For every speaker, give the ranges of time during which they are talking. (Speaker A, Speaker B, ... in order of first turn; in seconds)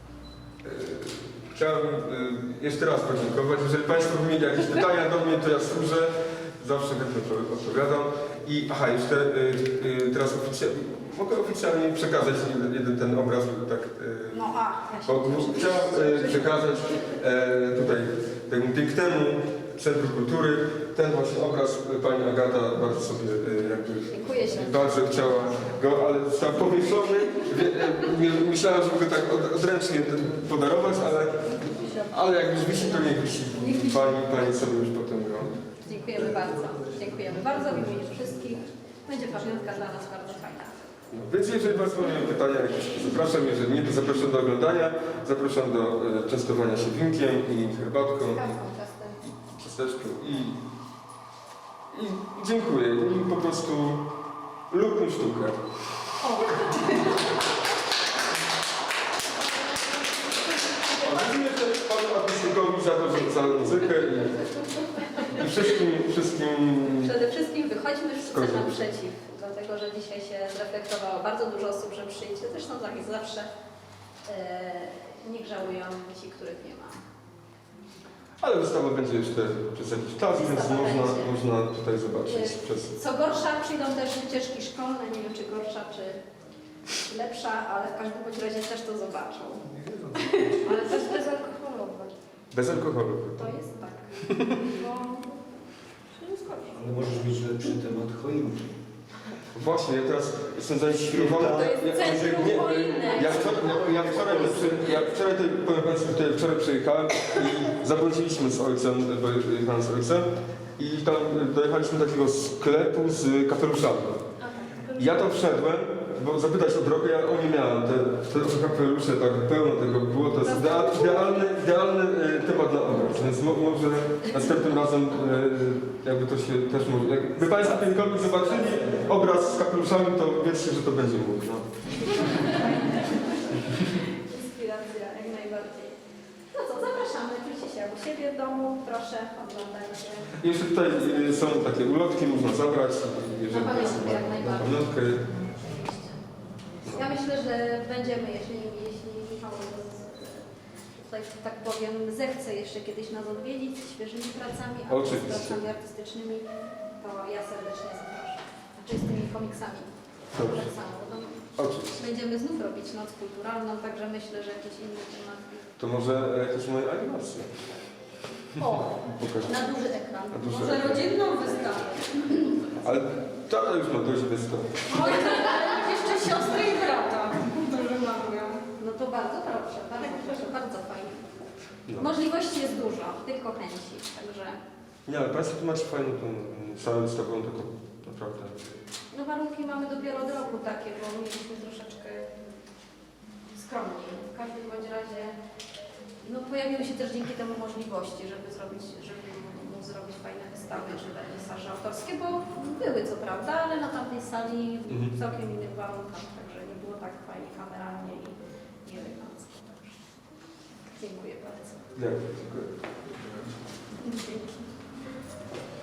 Speaker A: 0.6-14.5, 15.0-35.5, 41.1-48.6, 49.2-50.6, 51.9-54.1, 54.7-55.6, 56.2-56.6, 60.9-64.5, 65.2-67.1, 68.2-68.8, 78.4-83.0, 89.8-90.1, 92.5-93.5, 94.2-94.5, 99.5-114.2, 114.9-132.1, 140.3-145.3, 146.8-147.1, 154.9-155.6, 160.3-160.7, 161.5-162.0, 165.8-167.5, 168.8-169.5, 170.3-171.1, 172.7-175.2, 181.9-182.1, 185.1-188.7, 204.9-205.1, 211.9-213.5
Speaker B: 14.3-17.0, 24.1-25.6, 31.6-32.1, 33.5-34.4, 35.8-40.7, 48.3-49.2, 56.2-57.4, 60.9-61.2, 64.8-65.3, 66.9-73.5, 74.2-77.0, 80.3-81.4, 82.3-86.2, 86.9-92.1, 93.4-95.3, 96.2-96.8, 101.5-103.8, 114.4-115.2, 120.4-121.5, 132.0-136.0, 136.5-141.4, 143.5-144.9, 145.6-146.2, 146.8-150.4, 151.0-156.5, 157.0-165.7, 168.6-172.7, 174.9-181.2, 181.9-184.6, 189.1-192.3, 193.5-195.3, 196.2-210.0, 210.9-211.9, 214.0-214.7
Speaker C: 96.7-98.8, 101.0-101.8, 103.4-105.0, 127.4-129.1